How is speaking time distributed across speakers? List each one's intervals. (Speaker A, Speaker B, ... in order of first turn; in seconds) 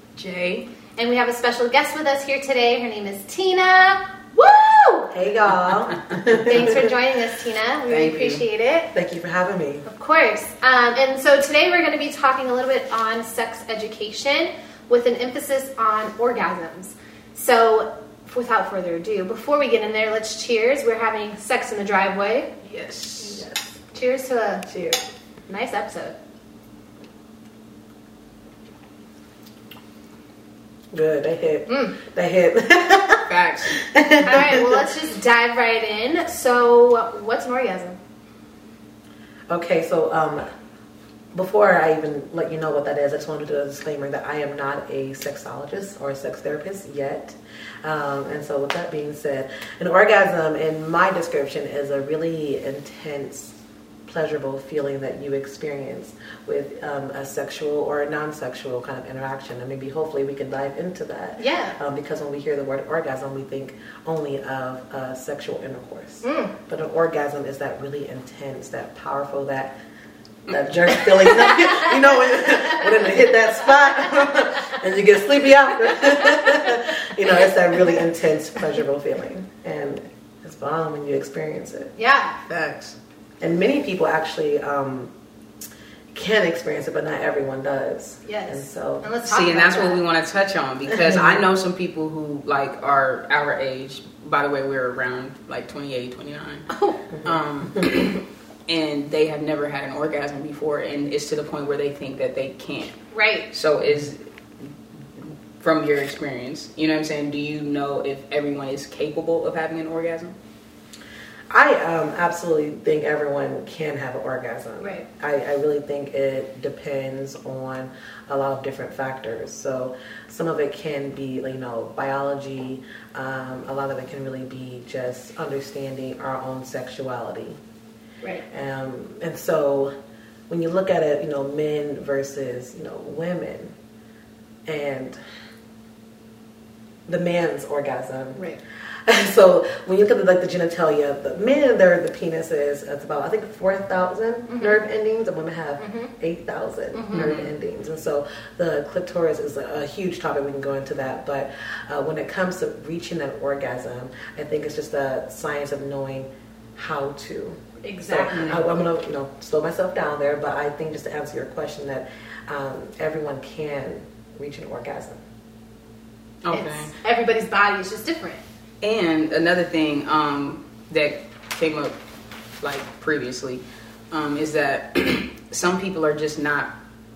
Speaker A: 0.2-0.7, 7.9-8.4, 22.6-23.4, 33.3-33.8, 82.5-83.0, 89.2-103.0, 103.5-104.7, 105.2-110.3, 147.1-147.5, 158.3-158.6, 166.4-166.9, 168.8-172.0, 172.6-176.7
Speaker B: 1.0-5.1, 6.3-8.9, 9.8-22.6, 23.2-24.7, 25.5-26.2, 31.7-32.0, 34.2-38.0, 61.4-61.8, 66.2-66.5, 71.3-73.0, 76.2-76.8, 77.3-78.0, 82.0-82.4, 88.2-90.0, 96.7-97.0, 103.1-103.5, 138.3-138.6, 144.5-144.8, 145.8-146.1, 146.9-147.4, 157.8-158.6, 166.5-168.4
Speaker C: 5.1-6.9, 8.9-9.8, 23.3-23.7, 24.7-25.0, 30.9-34.9, 39.5-40.5, 41.3-69.8, 70.5-81.9, 83.4-85.1, 86.1-89.1, 91.1-91.4, 111.5-127.6, 128.5-129.9, 130.5-133.7, 134.7-135.2, 137.1-138.4, 139.1-165.2